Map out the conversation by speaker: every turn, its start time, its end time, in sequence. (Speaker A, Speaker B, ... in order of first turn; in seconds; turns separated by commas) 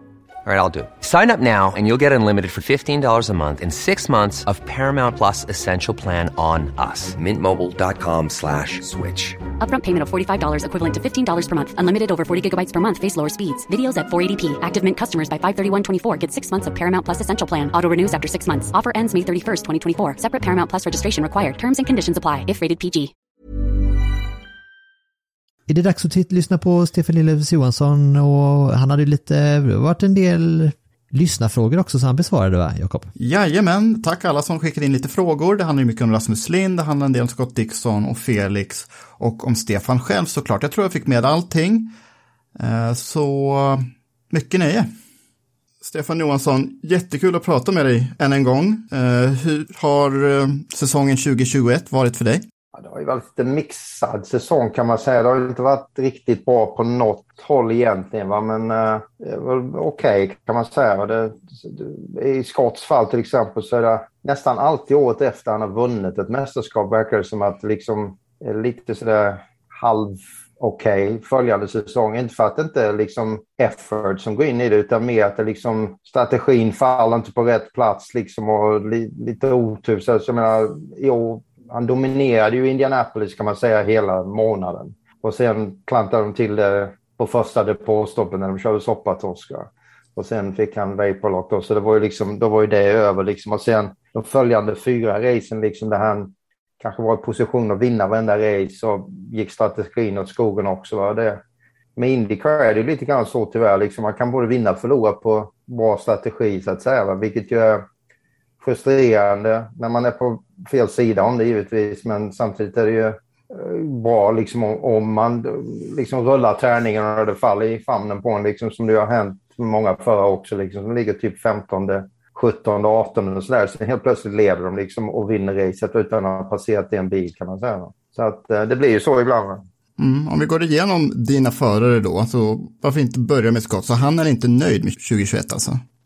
Speaker A: 0.5-9.4, Speaker B: 9.6-23.1, Speaker C: 25.7-33.1, Speaker D: 33.2-41.9, Speaker D: 42.6-44.9, Speaker D: 45.8-52.5, Speaker E: 52.8-101.4, Speaker E: 102.0-107.8, Speaker E: 108.6-129.6, Speaker D: 130.0-135.8